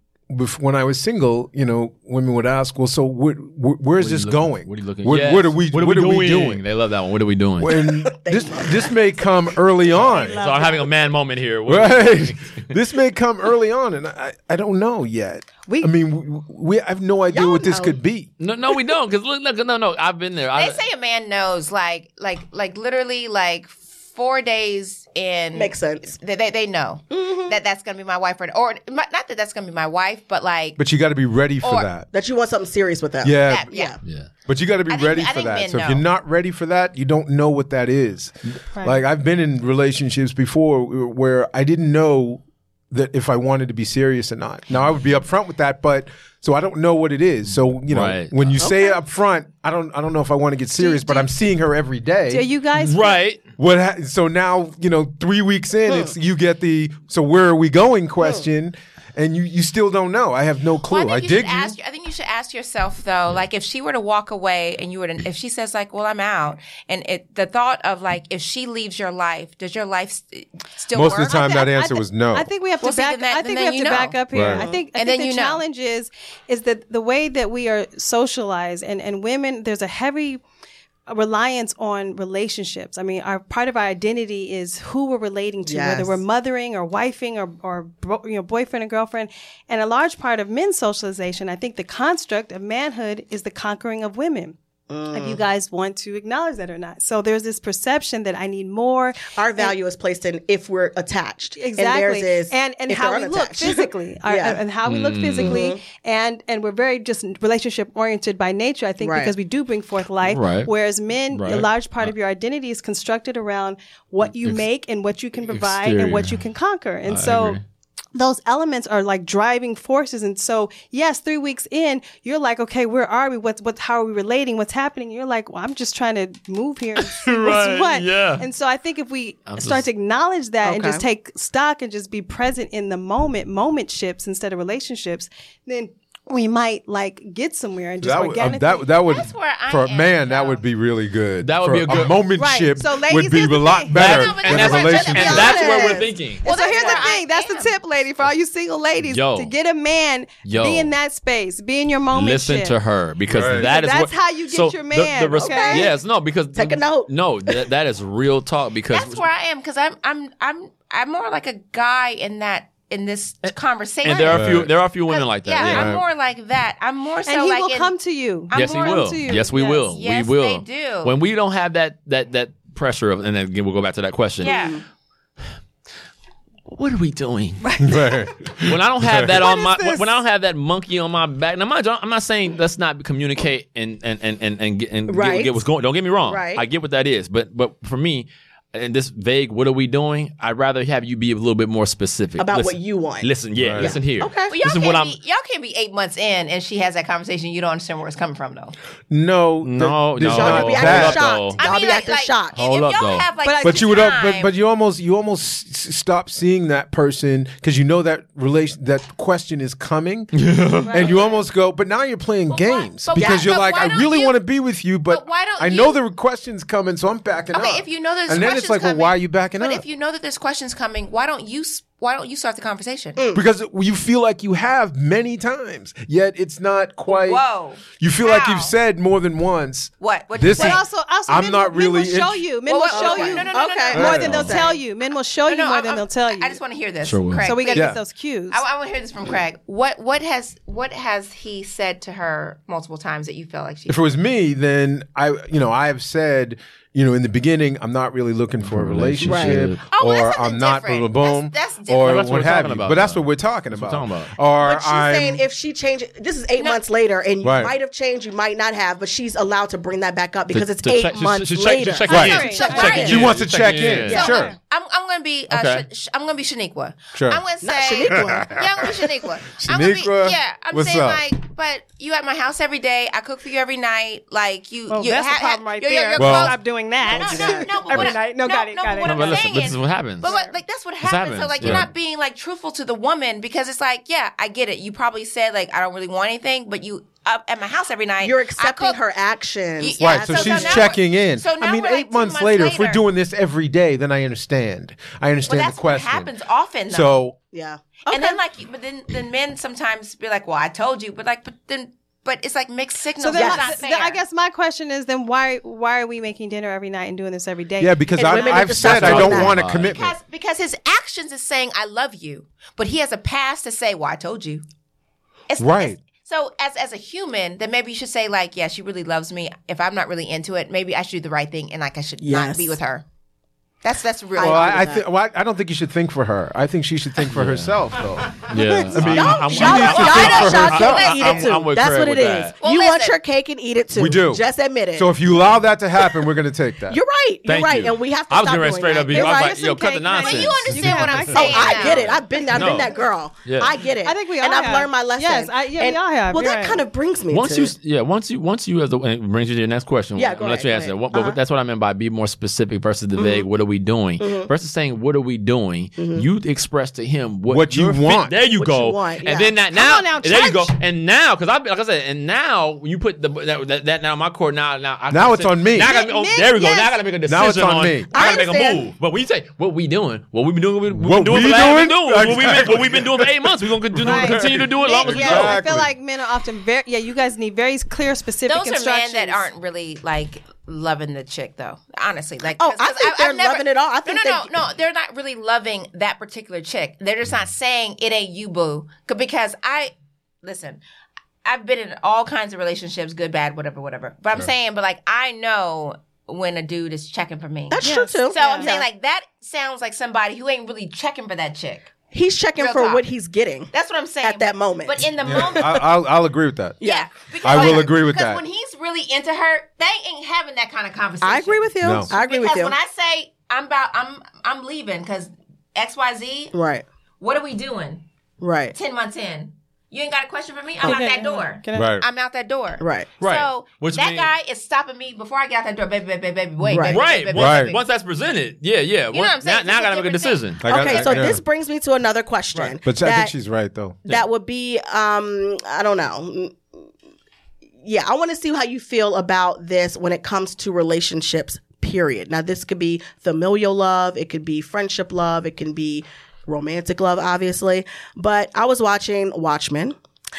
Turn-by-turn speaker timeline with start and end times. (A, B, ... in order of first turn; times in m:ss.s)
0:00.3-0:06.6 A
0:04.0-0:07.9 B
0:07.6-0:10.4 A
0:07.8-0:09.0 C
0:09.9-0:12.7 B
0:10.1-0:10.9 D
0:11.6-0:18.3 A
0:15.6-0:15.9 D
0:17.3-0:18.0 C
0:18.4-0:20.8 B
0:20.5-0:30.8 E
0:25.5-0:26.1 C
0:27.1-0:27.6 C
0:30.8-0:32.1 A
0:31.6-0:31.9 E
0:32.1-0:34.0 C
0:33.2-0:33.7 A
0:33.4-0:34.0 E
0:34.0-0:34.3 B
0:34.4-0:52.5 A
0:34.9-0:36.0 E
0:38.7-0:39.0 D
0:47.9-0:48.5 B
0:48.6-0:49.0 C
0:50.8-0:51.3 D
0:52.3-0:53.2 D
0:52.8-0:53.4 B
0:53.6-1:01.8 A
0:55.9-0:56.1 C
1:00.9-1:11.7 E
1:10.9-1:12.5 A
1:11.3-1:20.4 D
1:12.8-1:15.6 E
1:14.3-1:14.6 A
1:21.1-1:34.6 D
1:25.6-1:26.2 C
1:34.9-1:35.4 C
1:35.1-1:39.7 D
1:39.3-1:44.6 C
1:41.6-1:57.6 D
1:44.8-1:45.6 B
1:45.4-1:45.8 C
1:49.0-1:49.3 C
1:50.2-1:50.7 B
1:51.3-1:52.1 B
1:54.2-1:54.6 B
1:55.5-1:56.4 B
1:57.0-1:57.6 B
1:58.1-2:18.8 D
2:07.0-2:08.4 B
2:09.5-2:09.8 B
2:10.6-2:11.0 C
2:18.0-2:25.6 A
2:19.0-2:20.6 E
2:21.4-2:22.2 B
2:22.4-2:24.1 D
2:23.9-2:26.4 B
2:24.0-2:27.8 E
2:25.1-2:26.1 C
2:26.4-2:32.7 D
2:29.0-2:29.5 B
2:30.4-2:30.9 B
2:32.1-2:39.2 B
2:33.3-2:33.7 A
2:33.5-2:35.9 D
2:35.4-2:35.9 C
2:36.5-2:37.6 C
2:38.9-2:47.9 E
2:43.4-2:45.9 B
2:44.3-2:44.7 A
2:45.6-2:46.0 A
2:47.2-2:49.9 D
2:48.5-2:49.2 E
2:48.5-2:54.6 B
2:49.9-2:51.1 E
2:54.4-2:54.8 E
2:54.4-2:54.8 C
2:56.7-3:15.2 B
2:57.6-2:58.2 D
2:57.8-2:59.4 A
2:59.3-3:00.2 D
3:05.1-3:05.6 C
3:06.2-3:06.6 C
3:12.4-3:13.3 C
3:13.6-3:14.0 A
3:13.8-3:14.5 C
3:14.5-3:18.7 E
3:19.1-3:21.3 A
3:19.6-3:21.6 B
3:20.2-3:22.5 C
3:21.6-3:24.5 E
3:22.5-3:23.3 B
3:23.4-3:24.2 D
3:23.6-3:30.4 A
3:30.3-3:31.1 B
3:30.8-3:31.4 D
3:30.9-3:39.8 A
3:32.5-3:34.4 E
3:33.1-3:33.5 C
3:35.1-3:36.0 E
3:37.5-3:43.2 E
3:43.2-3:43.4 C
3:43.3-3:47.4 A
3:47.1-3:48.7 E
3:48.0-3:52.4 A
3:50.0-3:50.8 E
3:50.5-3:56.6 D
3:52.6-3:54.2 E
3:52.9-3:54.8 C
3:53.9-3:54.6 A
3:55.4-3:58.0 E
3:57.0-3:57.5 B
3:57.4-3:58.6 D
3:57.7-3:58.0 A
3:58.5-4:04.0 E
4:03.9-4:15.4 A
4:08.6-4:09.8 B
4:09.2-4:09.6 C
4:09.9-4:12.2 E
4:12.0-4:14.3 B
4:14.6-4:23.2 C
4:17.4-4:17.7 A
4:20.5-4:24.4 B
4:22.1-4:23.1 D
4:22.1-4:22.4 A
4:22.1-4:23.2 E
4:23.0-4:24.5 A
4:24.0-4:49.0 E
4:24.3-4:24.5 D
4:25.5-4:25.8 B
4:27.1-4:27.4 A
4:27.6-4:28.6 C
4:28.0-4:28.8 A
4:29.6-4:31.2 A
4:34.9-4:39.5 D
4:36.2-4:36.6 A
4:37.1-4:37.8 C
4:39.0-4:40.3 B
4:40.2-4:40.6 D
4:41.0-4:41.9 B
4:48.2-4:50.9 C
4:49.8-4:53.0 E
4:50.0-4:56.3 A
4:55.4-4:57.2 E
4:56.9-4:57.3 A
4:57.5-4:58.4 C
4:58.1-5:04.2 E
5:03.2-5:08.6 D
5:03.3-5:03.7 C
5:07.8-5:10.1 A
5:08.2-5:09.6 C
5:08.7-5:10.1 B
5:09.6-5:14.6 E
5:15.5-5:23.0 E
5:15.6-5:16.0 A
5:22.2-5:22.8 C
5:23.8-5:24.9 E
5:24.3-5:25.0 C
5:24.4-5:31.4 A
5:27.2-5:32.5 B
5:29.0-5:35.1 C
5:29.6-5:31.5 E
5:32.6-5:33.2 E
5:34.0-5:34.4 A
5:34.9-5:37.0 A
5:36.9-5:39.7 C
5:37.4-5:43.8 B
5:39.1-5:42.6 D
5:40.1-5:42.1 E
5:41.3-5:47.7 C
5:44.0-5:46.8 D
5:47.3-6:15.7 B
5:50.2-5:51.4 C
5:53.2-5:53.5 C
5:54.2-5:54.5 C
5:56.0-5:56.2 C
5:57.5-5:58.4 A
5:58.5-5:59.6 C
5:59.7-6:00.8 D
6:05.1-6:05.9 A
6:05.7-6:07.0 D
6:07.2-6:08.1 A
6:08.1-6:08.8 C
6:10.9-6:15.9 A
6:14.0-6:19.5 D
6:18.5-6:30.8 E
6:22.6-6:24.6 C
6:31.4-6:41.9 E
6:37.7-6:38.8 C
6:37.8-6:38.7 D
6:42.1-6:45.8 C
6:42.6-6:43.0 E
6:43.7-6:45.8 E
6:45.2-6:46.8 A
6:46.8-6:47.9 C
6:46.8-6:56.5 E
6:47.4-6:48.4 A
6:51.2-6:52.7 C
6:51.8-6:52.1 A
6:56.5-6:56.8 C
6:57.2-6:58.0 E
6:58.4-6:58.7 C
6:58.7-7:07.8 E
7:00.8-7:02.0 D
7:01.7-7:02.0 A
7:02.8-7:03.1 C
7:03.2-7:04.3 B
7:06.7-7:07.0 C
7:06.8-7:10.6 B
7:07.3-7:07.7 A
7:09.1-7:11.3 E
7:10.6-7:11.4 A
7:10.6-7:13.3 C
7:12.8-7:14.0 A
7:14.1-7:16.7 C
7:17.8-7:30.0 C